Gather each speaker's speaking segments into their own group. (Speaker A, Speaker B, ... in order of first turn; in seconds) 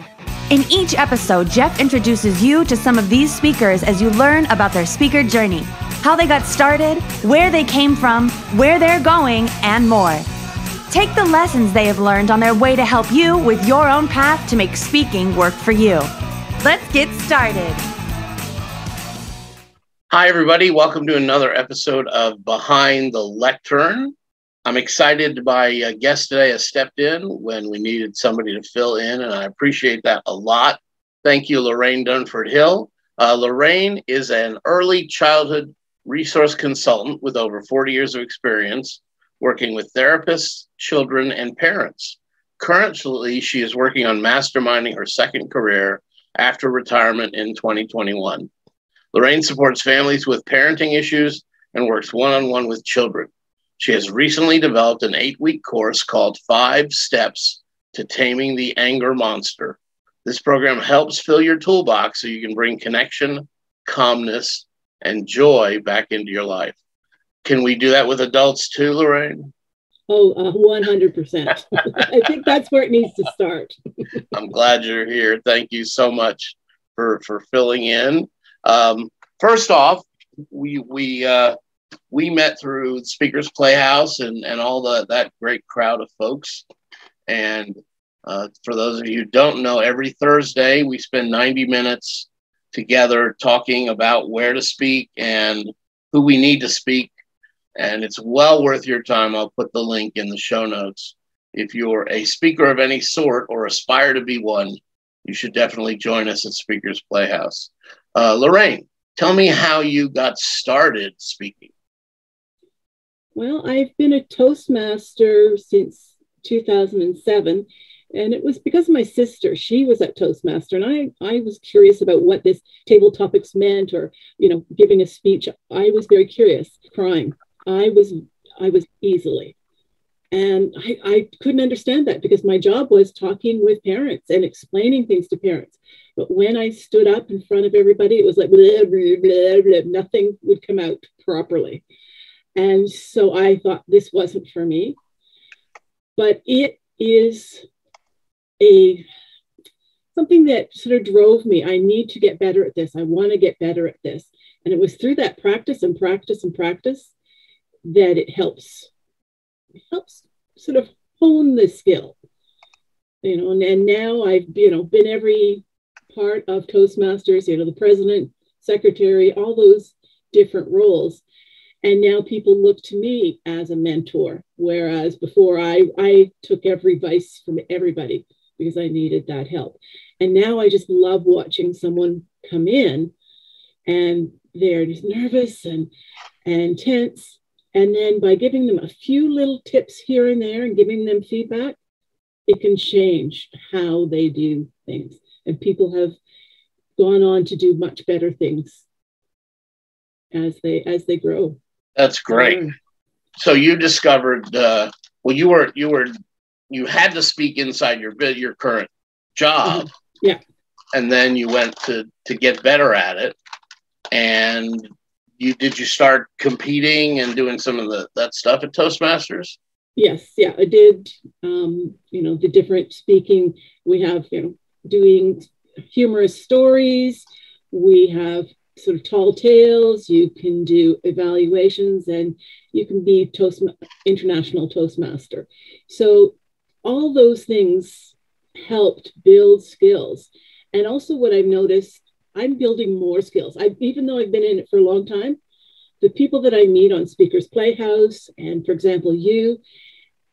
Speaker A: 0.5-10.2, 10.9-16.1, 16.6-17.8
Speaker B: 20.1-24.1, 24.7-48.5, 49.1-66.8, 67.4-69.5, 74.3-81.6, 82.1-86.7, 87.3-97.1, 97.8-111.7, 202.0-202.6, 203.4-206.1, 206.7-209.9, 210.9-213.4, 214.1-214.9, 215.4-219.6
Speaker C: 70.1-73.8, 113.3-129.6, 130.3-141.8, 142.6-145.0, 146.2-147.7, 148.6-149.1, 150.2-157.1, 157.8-158.9, 159.9-162.2, 163.2-171.2, 171.8-183.1, 183.9-185.9, 186.5-191.8, 192.5-196.2, 197.0-198.8, 200.3-201.6, 202.3-202.7, 209.7-210.4, 220.0-245.4, 246.0-249.6